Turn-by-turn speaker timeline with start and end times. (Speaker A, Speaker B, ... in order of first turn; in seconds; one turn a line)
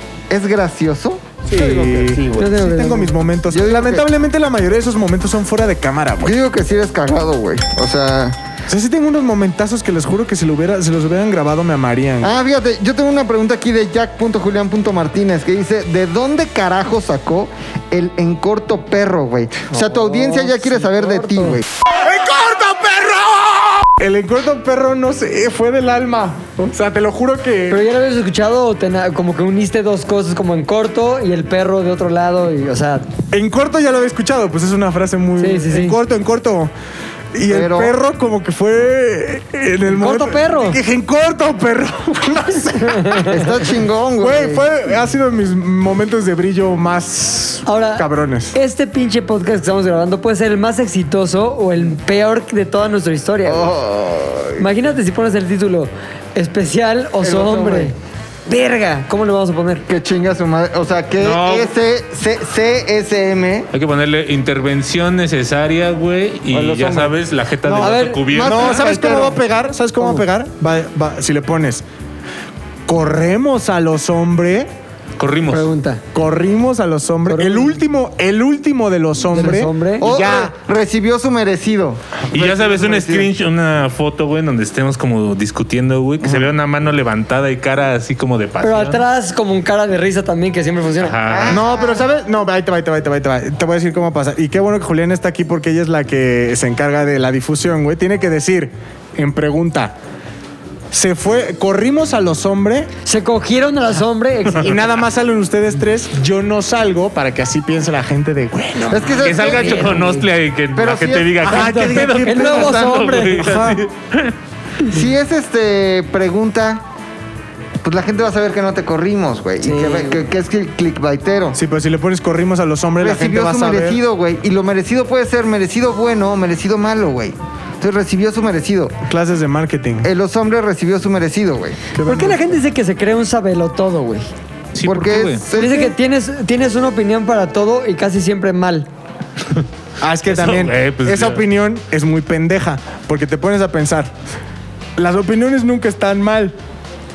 Speaker A: 0.3-1.3
Speaker B: 1.5-6.4
Speaker C: 1.6-2.2
Speaker D: 2.4-3.1
Speaker A: 3.5-4.0
Speaker A: 6.2-8.4
Speaker B: 8.7-12.3
Speaker A: 12.2-21.6
Speaker D: 19.7-21.6
Speaker B: 21.9-27.8
Speaker D: 27.7-33.1
Speaker B: 33.3-36.7
Speaker D: 35.4-36.0
Speaker B: 37.3-43.2
Speaker A: 37.5-37.9
Speaker D: 39.9-40.8
Speaker D: 42.8-43.5
Speaker A: 43.3-44.7
Speaker B: 44.2-48.5
Speaker D: 47.7-53.7
Speaker A: 53.5-54.6
Speaker D: 54.6-58.0
Speaker A: 57.2-57.9
Speaker D: 58.5-59.8
Speaker A: 59.9-63.7
Speaker C: 61.2-61.7
Speaker C: 63.7-68.8
Speaker A: 66.5-67.1
Speaker A: 67.7-69.4
Speaker D: 67.7-68.2
Speaker B: 68.4-71.8
Speaker B: 72.9-74.7
Speaker C: 75.2-75.7
Speaker D: 75.5-76.0
Speaker B: 76.1-80.5
Speaker D: 77.3-77.8
Speaker D: 79.3-80.0
Speaker A: 80.0-83.3
Speaker C: 82.3-89.0
Speaker A: 86.2-86.5
Speaker D: 88.6-91.2
Speaker C: 91.0-91.6
Speaker A: 91.3-92.0
Speaker B: 91.5-100.0
Speaker B: 100.9-102.9
Speaker D: 103.0-104.8
Speaker B: 104.6-109.1
Speaker D: 108.8-110.2
Speaker A: 108.9-110.2
Speaker C: 109.2-114.3
Speaker A: 110.7-111.7
Speaker B: 111.4-113.8
Speaker D: 111.8-113.7
Speaker A: 114.9-116.8
Speaker A: 117.8-121.6
Speaker D: 119.6-120.2
Speaker B: 121.5-124.0
Speaker A: 123.0-129.0
Speaker B: 129.1-130.1
Speaker A: 130.0-131.8
Speaker B: 131.9-132.6
Speaker D: 132.0-134.3
Speaker C: 134.7-135.4
Speaker A: 134.8-135.9
Speaker D: 135.6-138.9
Speaker B: 140.0-144.1
Speaker C: 140.3-141.4
Speaker B: 145.0-146.6